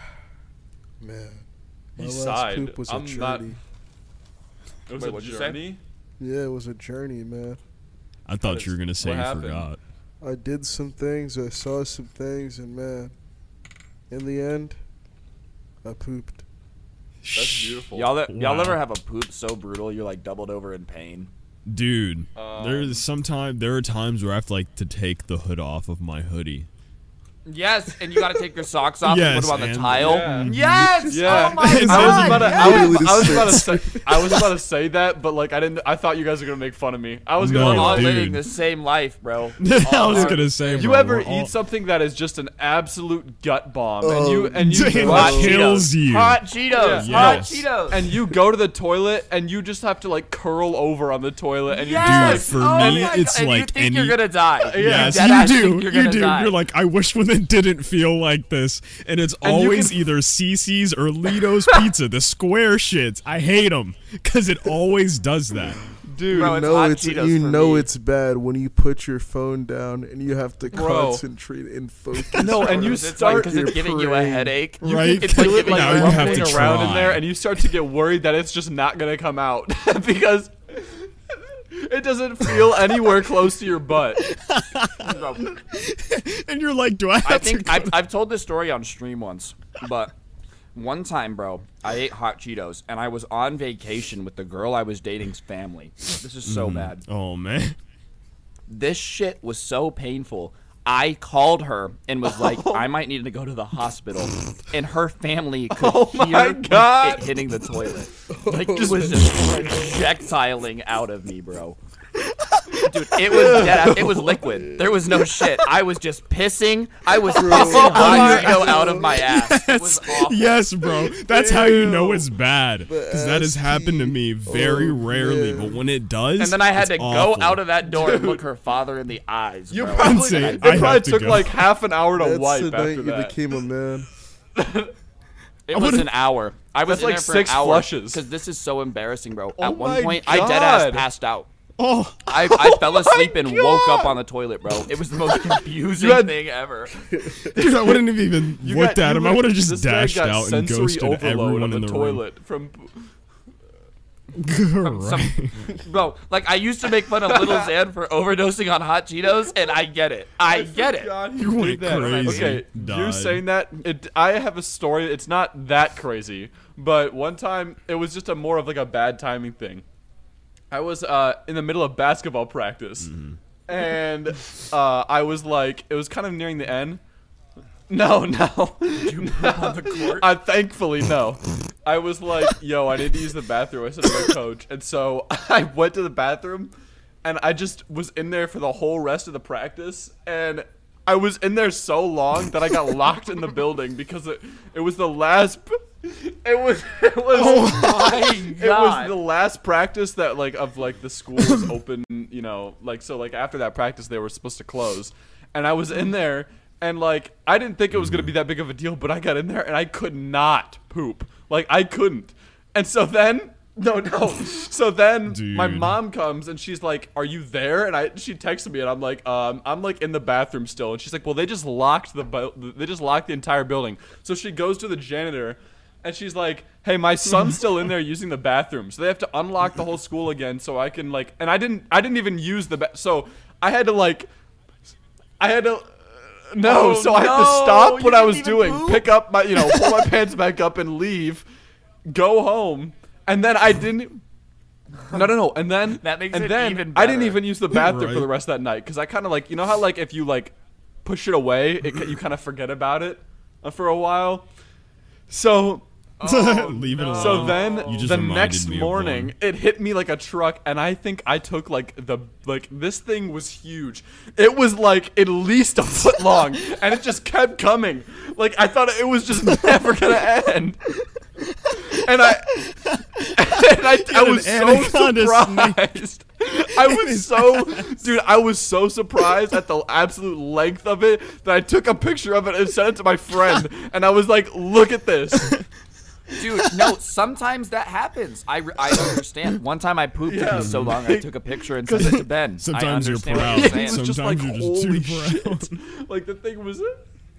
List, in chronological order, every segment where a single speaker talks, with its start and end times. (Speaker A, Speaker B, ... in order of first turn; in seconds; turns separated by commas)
Speaker A: 1.0-1.4, Speaker B: 2.0-3.5, Speaker A: 2.0-3.6, Speaker B: 4.9-5.8, Speaker C: 4.9-5.6, Speaker A: 6.2-7.6, Speaker D: 8.3-9.8, Speaker B: 8.4-9.7, Speaker A: 10.2-13.1, Speaker A: 14.1-14.8, Speaker A: 15.8-16.4, Speaker D: 17.2-18.8, Speaker B: 17.3-18.1, Speaker C: 17.9-21.3, Speaker D: 21.7-26.7, Speaker B: 22.4-23.0, Speaker C: 27.5-33.2, Speaker D: 29.0-32.6, Speaker B: 30.0-30.5, Speaker A: 31.1-34.5, Speaker B: 31.1-38.3, Speaker D: 37.4-38.4, Speaker C: 37.5-40.9, Speaker D: 39.6-41.5, Speaker B: 40.0-45.7, Speaker A: 44.0-45.6, Speaker D: 44.6-47.7, Speaker C: 45.0-48.0, Speaker B: 46.7-53.2, Speaker C: 51.7-56.5, Speaker D: 52.0-54.2, Speaker B: 54.7-55.2, Speaker D: 54.8-65.8, Speaker B: 59.4-60.1, Speaker B: 66.0-66.6, Speaker A: 66.3-74.6, Speaker C: 66.3-67.9, Speaker B: 70.7-71.2, Speaker B: 72.4-73.7, Speaker C: 72.6-77.0, Speaker D: 74.8-77.3, Speaker B: 75.2-81.1, Speaker B: 81.7-84.2, Speaker D: 84.3-88.0, Speaker C: 85.0-85.5, Speaker C: 87.2-90.1, Speaker C: 90.7-97.0, Speaker D: 96.5-97.8, Speaker C: 98.7-111.8, Speaker B: 102.3-102.9, Speaker B: 105.8-107.4, Speaker A: 108.3-109.7, Speaker C: 112.8-120.5, Speaker B: 113.3-114.2, Speaker A: 117.3-119.3, Speaker D: 117.5-118.3, Speaker B: 117.6-119.0, Speaker D: 119.2-127.7, Speaker A: 121.5-122.3, Speaker A: 122.8-125.8, Speaker C: 126.4-130.9, Speaker B: 127.8-128.4, Speaker B: 129.7-133.4, Speaker D: 130.0-131.5, Speaker A: 132.2-134.1, Speaker B: 134.6-134.9, Speaker C: 135.7-141.5, Speaker D: 135.7-136.1, Speaker B: 136.8-138.2, Speaker B: 139.6-141.1, Speaker D: 141.8-144.2, Speaker C: 142.3-146.9, Speaker B: 146.0-146.3, Speaker D: 147.5-152.2, Speaker B: 147.5-153.1, Speaker D: 154.4-155.6, Speaker C: 154.8-161.2, Speaker B: 157.3-157.7, Speaker B: 160.4-169.8, Speaker D: 161.4-163.4, Speaker C: 161.8-162.6, Speaker B: 170.7-173.1, Speaker D: 173.1-173.4, Speaker B: 173.7-177.0, Speaker B: 177.9-186.7, Speaker C: 179.0-180.3, Speaker B: 187.2-234.3, Speaker D: 197.3-198.1, Speaker C: 197.4-199.2, Speaker D: 201.4-201.7, Speaker D: 207.9-208.3, Speaker D: 215.3-216.0, Speaker B: 235.4-241.4, Speaker C: 236.6-240.1, Speaker B: 242.1-244.2, Speaker B: 245.1-254.5, Speaker C: 246.0-247.4, Speaker D: 247.7-248.3, Speaker B: 255.3-255.9, Speaker C: 256.2-258.2, Speaker D: 256.2-259.3, Speaker B: 257.1-270.8, Speaker D: 269.5-269.9, Speaker D: 271.6-273.2, Speaker B: 271.9-272.6, Speaker B: 273.4-285.6, Speaker D: 273.9-276.0, Speaker D: 276.7-278.1, Speaker C: 286.4-294.0, Speaker B: 290.3-292.2, Speaker D: 290.5-291.0, Speaker D: 291.9-295.8, Speaker B: 293.3-297.0